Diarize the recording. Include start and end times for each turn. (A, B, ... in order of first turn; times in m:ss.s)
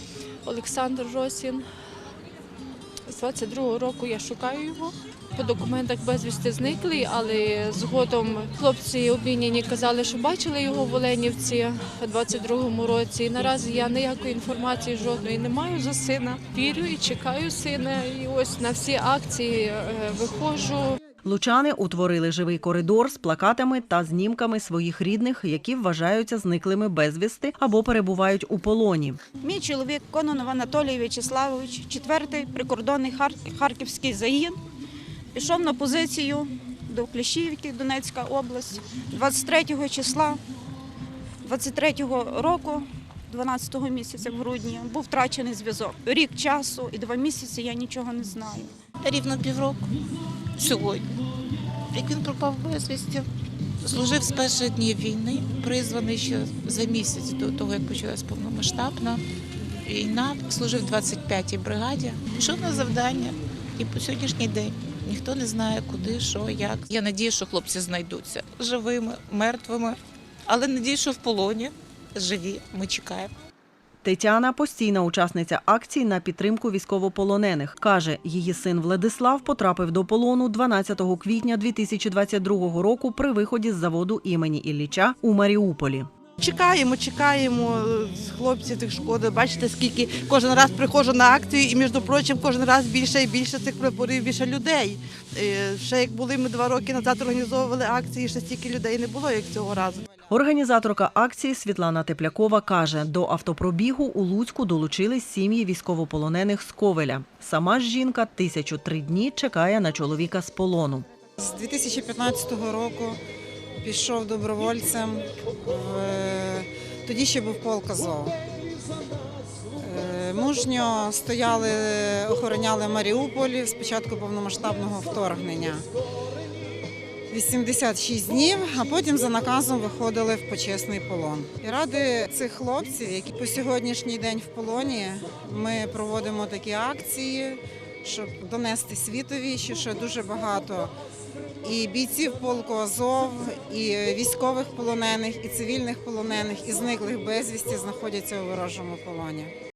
0:00.4-0:01.6 A
0:03.1-0:21.0 A
0:21.2-0:29.2 B
0:29.4-0:34.6 C
0:35.4-0:40.4 C
0:41.4-0:48.7 C
0:49.0-0:49.9 D
0:50.6-0:51.1 D
0:51.9-0:53.3 D
0:53.8-0:59.2 D
0:59.8-1:13.3 D
1:14.0-1:26.1 B
1:26.4-1:40.0 E
1:40.3-1:51.1 B
1:51.4-1:53.2 F
1:53.8-1:58.4 F
1:59.8-2:05.8 F
2:07.3-2:20.9 F
2:21.6-2:29.5 F